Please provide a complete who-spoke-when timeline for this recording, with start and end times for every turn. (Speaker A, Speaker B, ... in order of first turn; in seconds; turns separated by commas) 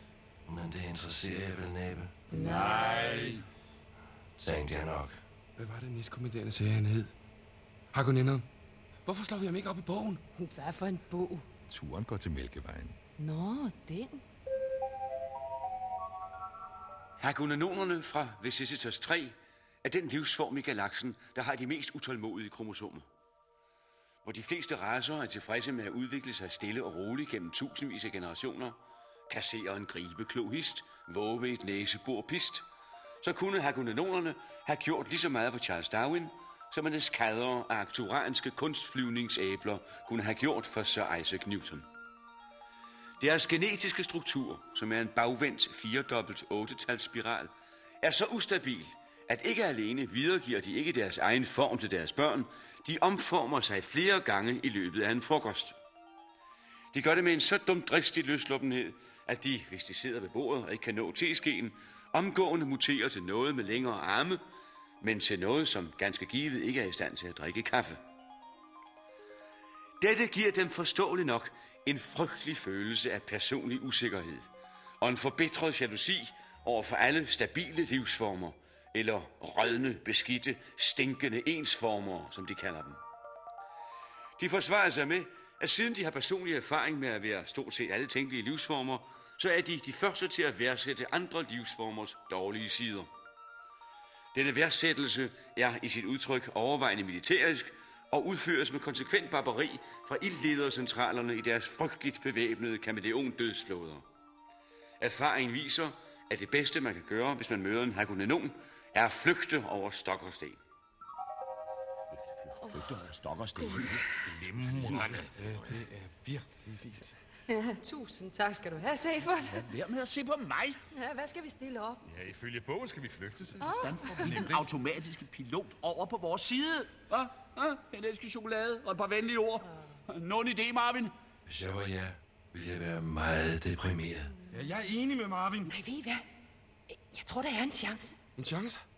Speaker A: 0.5-2.1, Speaker B: 2.3-3.1, Speaker C: 2.3-3.4, Speaker A: 4.4-5.2, Speaker D: 5.6-7.1, Speaker D: 7.9-8.5, Speaker D: 9.1-10.2, Speaker B: 10.4-11.5, Speaker E: 11.7-13.0, Speaker B: 13.2-14.2, Speaker F: 17.2-23.1, Speaker F: 24.2-28.8, Speaker F: 29.3-32.6, Speaker F: 33.2-41.9, Speaker F: 43.2-55.8, Speaker F: 56.9-64.4, Speaker F: 65.0-68.0, Speaker F: 70.0-74.5, Speaker F: 75.0-83.0, Speaker F: 84.4-93.1, Speaker F: 94.3-104.0, Speaker F: 105.0-110.6, Speaker C: 112.3-114.2, Speaker B: 112.6-112.9, Speaker B: 113.6-113.9, Speaker E: 114.2-115.8, Speaker C: 114.7-115.1, Speaker D: 115.4-117.1, Speaker B: 117.5-119.7, Speaker C: 119.4-120.8, Speaker B: 120.9-122.0, Speaker E: 122.0-124.6, Speaker B: 123.6-124.4, Speaker C: 123.8-131.1, Speaker A: 131.4-134.4, Speaker D: 134.5-135.7, Speaker B: 135.7-136.3, Speaker B: 136.9-138.2, Speaker D: 138.4-138.8